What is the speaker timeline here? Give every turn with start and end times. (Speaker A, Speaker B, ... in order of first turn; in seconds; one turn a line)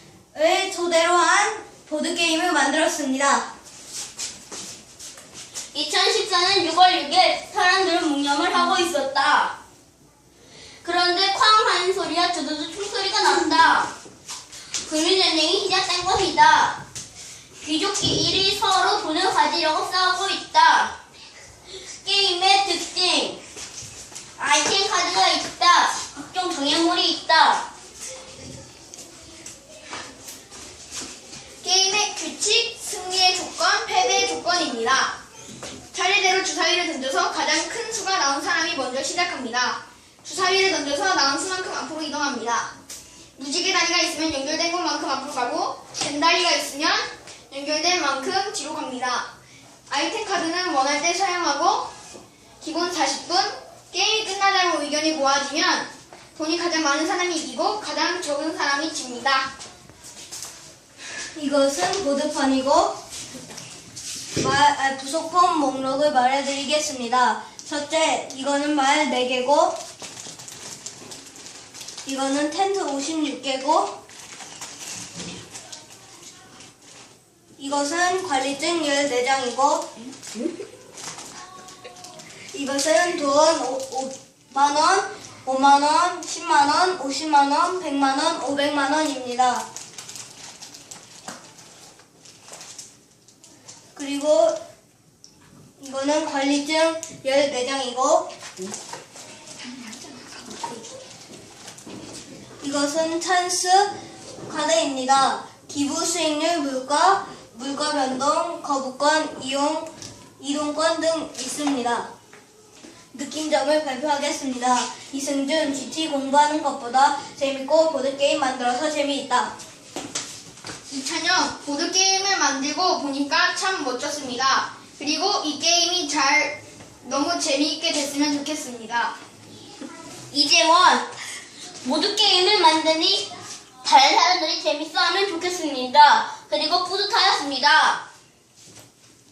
Speaker A: 0.3-3.4
Speaker B: 5.7-9.5
Speaker B: 10.8-13.9
Speaker B: 14.8-16.8
Speaker B: 17.6-20.9
Speaker B: 21.9-23.4
Speaker B: 24.4-27.7
Speaker C: 31.6-35.2
Speaker C: 35.9-42.7
Speaker C: 43.4-49.3
Speaker C: 49.9-51.9
Speaker C: 52.6-59.5
Speaker A: 61.4-62.9
Speaker A: 64.3-69.8
Speaker A: 72.0-73.9
Speaker A: 77.6-79.9
Speaker A: 82.5-89.7
Speaker A: 93.9-94.5
Speaker A: 95.8-98.3
Speaker A: 102.6-103.9
Speaker A: 104.5-109.9
Speaker A: 110.4-112.1
Speaker A: 113.1-119.5
Speaker C: 120.9-129.1
Speaker B: 130.3-131.1
Speaker B: 131.8-133.3
Speaker B: 133.8-138.0